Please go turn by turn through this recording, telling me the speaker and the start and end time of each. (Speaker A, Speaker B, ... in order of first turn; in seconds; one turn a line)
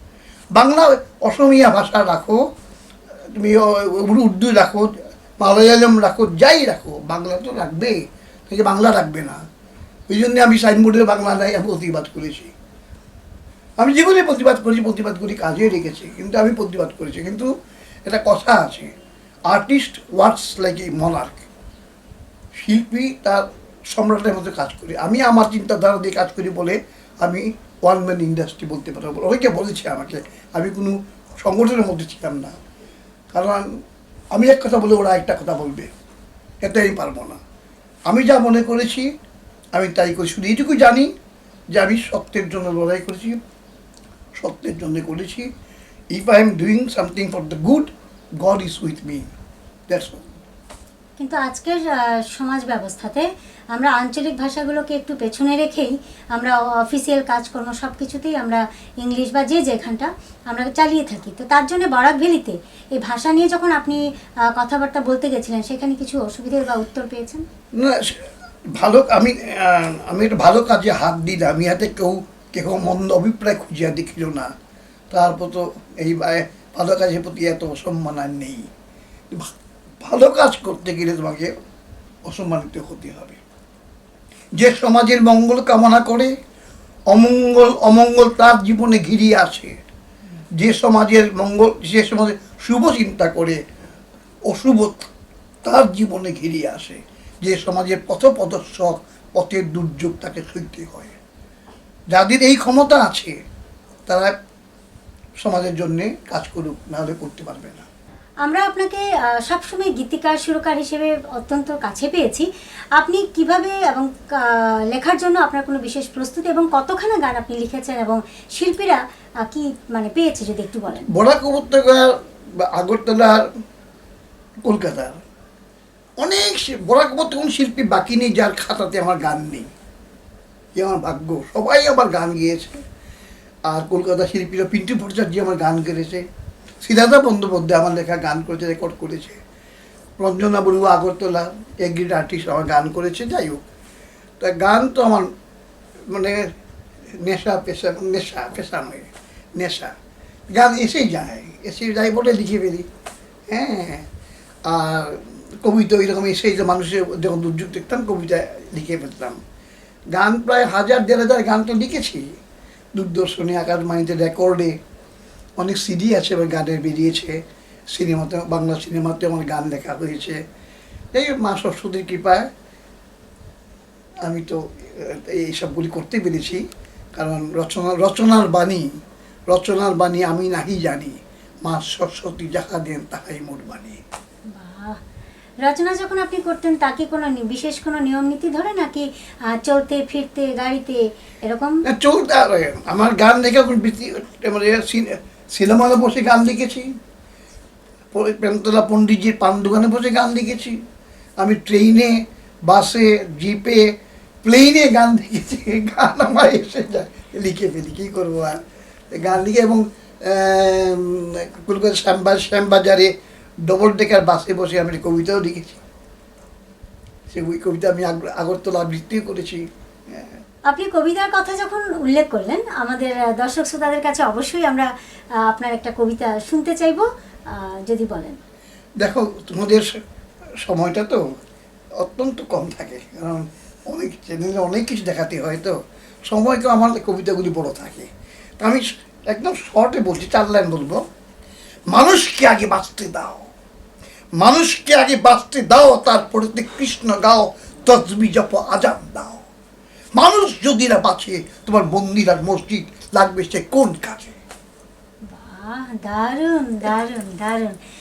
Speaker A: 0.5-2.4
Speaker A: 3.4-9.4
Speaker A: 10.1-12.5
Speaker A: 13.8-17.5
Speaker A: 18.1-18.9
Speaker A: 19.5-21.4
Speaker A: 22.6-32.6
Speaker A: 33.3-33.7
Speaker A: 34.3-35.9
Speaker A: 36.6-37.4
Speaker A: 38.1-39.1
Speaker A: 39.7-41.1
Speaker A: 41.8-43.4
Speaker A: 44.4-45.5
Speaker A: 46.1-47.9
Speaker A: 48.4-49.3
Speaker A: 49.9-50.2
Speaker B: 51.2-67.4
Speaker A: 67.8-74.5
Speaker A: 75.1-78.7
Speaker A: 80.0-81.5
Speaker A: 82.3-83.4
Speaker A: 84.6-86.3
Speaker A: 87.1-89.8
Speaker A: 90.6-93.6
Speaker A: 94.5-95.1
Speaker A: 95.6-101.2
Speaker A: 102.1-103.3
Speaker A: 104.1-104.3
Speaker A: 105.4-107.9
Speaker B: 108.4-121.1
Speaker A: 121.1-123.5
Speaker A: 124.7-125.2
Speaker A: 126.2-129.7
Speaker A: 130.8-132.8
Speaker A: 133.7-136.3
Speaker A: 136.8-139.4
Speaker A: 140.2-143.6
Speaker A: 144.4-145.3
Speaker A: 146.1-146.5
Speaker A: 147.2-149.9
Speaker A: 150.5-152.9
Speaker A: 153.5-154.1
Speaker A: 154.7-159.4
Speaker A: 160.1-162.3
Speaker A: 162.9-164.8
Speaker A: 165.6-167.4
Speaker A: 167.9-170.4
Speaker A: 171.1-172.5
Speaker A: 174.2-176.6
Speaker A: 177.2-178.9
Speaker A: 179.5-184.0
Speaker B: 184.5-185.0
Speaker B: 185.6-191.8
Speaker A: 191.9-196.9
Speaker A: 198.1-200.8
Speaker A: 201.4-203.9
Speaker A: 204.4-208.6
Speaker A: 209.1-213.1
Speaker A: 213.7-215.8
Speaker A: 217.3-220.4
Speaker B: 220.7-228.4
Speaker A: 229.0-230.0
Speaker A: 230.6-231.2
Speaker A: 232.0-235.8
Speaker A: 236.3-238.1
Speaker A: 238.6-241.0
Speaker A: 241.9-243.5
Speaker A: 244.4-249.4
Speaker A: 250.2-254.4
Speaker B: 255.3-257.8